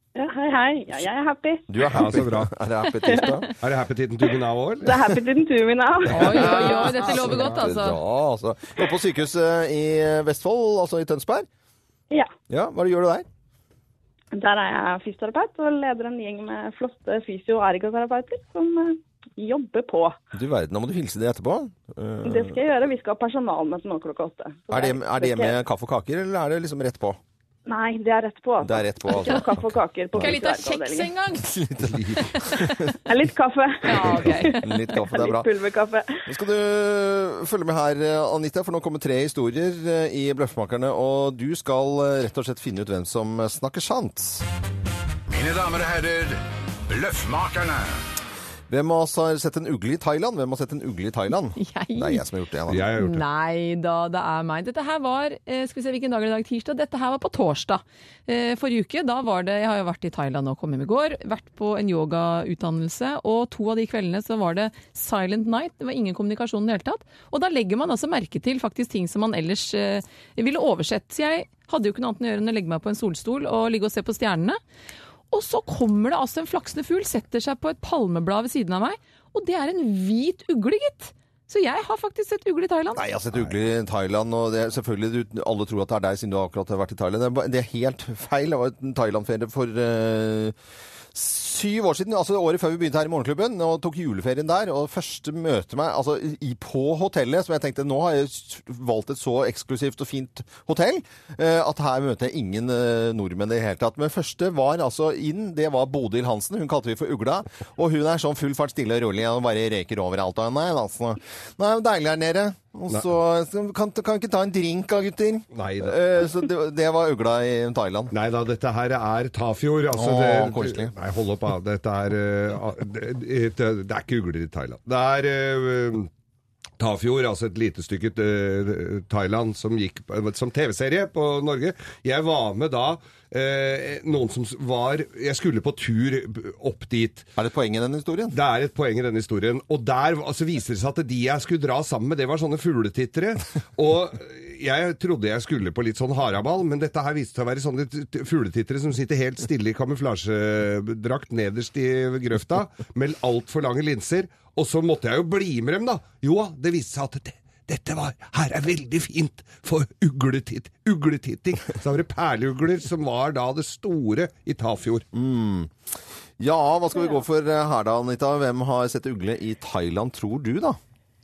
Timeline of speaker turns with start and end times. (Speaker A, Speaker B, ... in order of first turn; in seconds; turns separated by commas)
Speaker A: 0.1-1.9, Speaker B: 1.7-3.5, Speaker C: 1.9-2.5, Speaker A: 3.1-3.3, Speaker C: 3.6-5.0, Speaker A: 4.8-6.9, Speaker D: 6.1-8.0, Speaker B: 6.2-11.5, Speaker B: 12.5-13.3, Speaker A: 14.3-20.2, Speaker B: 20.3-22.6, Speaker A: 22.2-25.6, Speaker B: 24.7-27.2, Speaker A: 27.7-31.1, Speaker B: 28.6-30.4, Speaker D: 30.2-31.5, Speaker B: 31.4-33.0, Speaker D: 32.3-32.6, Speaker A: 33.1-36.2, Speaker D: 33.8-34.7, Speaker B: 34.4-35.5, Speaker B: 36.3-44.5, Speaker E: 45.3-48.0, Speaker B: 48.7-53.0, Speaker D: 51.6-52.2, Speaker C: 52.7-53.2, Speaker D: 53.0-74.6, Speaker D: 75.3-83.0, Speaker B: 83.0-90.5, Speaker B: 91.1-118.1, Speaker C: 115.5-116.0, Speaker C: 118.1-126.1, Speaker B: 119.9-120.9, Speaker C: 126.8-137.3, Speaker B: 137.4-138.4, Speaker C: 138.3-165.1, Speaker B: 165.1-165.7, Speaker B: 166.4-170.8